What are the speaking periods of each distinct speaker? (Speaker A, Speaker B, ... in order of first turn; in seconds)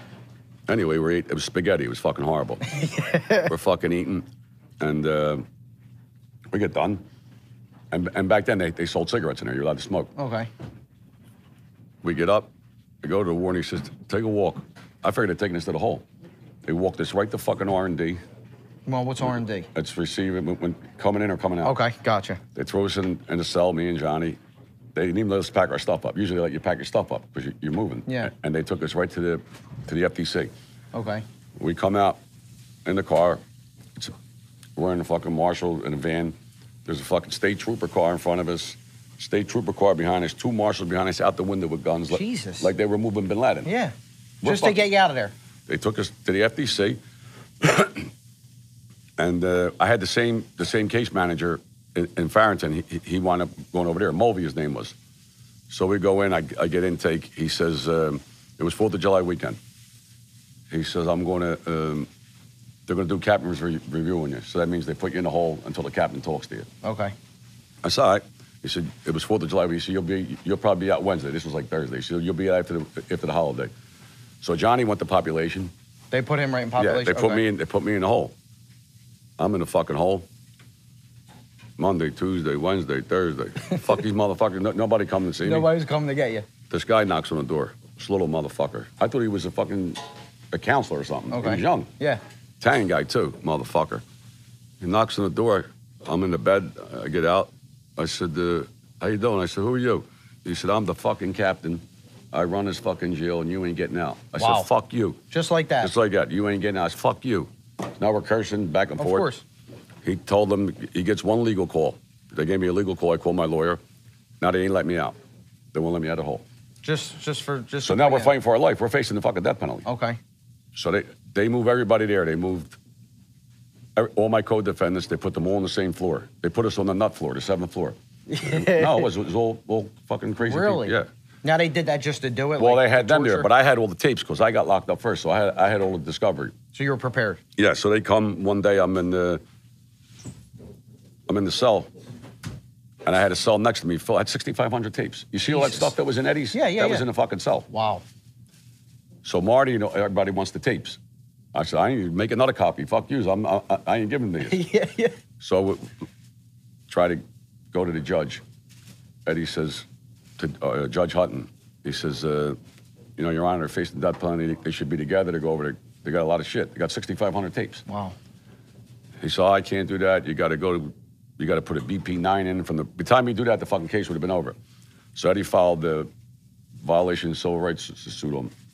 Speaker A: 0.7-2.6, 3.5-4.2, 4.8-5.5, 6.5-7.0, 7.9-10.1, 12.0-12.5, 13.0-16.0, 16.6-18.2, 19.7-21.8, 22.6-24.4, 24.9-30.5, 31.6-32.2, 32.9-33.4, 34.8-43.7, 44.4-44.9, 45.7-47.0, 47.6-48.1, 49.2-55.0, 55.7-59.6, 60.7-62.1, 62.9-66.7, 67.8-73.7, 74.4-75.7, 76.8-78.3, 79.4-80.3, 81.8-85.7, 86.7-90.0, 90.5-91.9, 92.6-94.0, 94.8-105.2, 105.8-109.3, 110.0-113.8, 114.4-115.2, 115.7-116.5, 117.8-119.9, 120.7-122.8, 124.0-131.1, 132.6-136.6, 137.6-139.4, 141.3-141.9, 143.1-147.7, 149.2-151.0, 151.5-154.6, 155.4-155.9, 156.9-158.4, 159.3-159.9, 160.4-162.6, 163.2-167.8, 169.2-174.6, 175.2-176.1, 176.8-178.5
Speaker B: 2.7-3.5, 10.2-10.5, 18.9-19.7, 21.6-22.4, 30.9-31.2, 42.1-42.7, 43.6-45.3, 66.8-67.1, 76.1-77.4, 85.4-86.5, 91.3-92.2, 104.4-104.7, 105.3-105.9, 109.0-109.4, 116.8-118.3, 119.9-120.2, 128.3-129.1, 130.4-133.5, 136.7-137.4, 145.5-145.9, 146.5-147.1, 147.7-148.0, 154.4-155.2, 167.9-168.2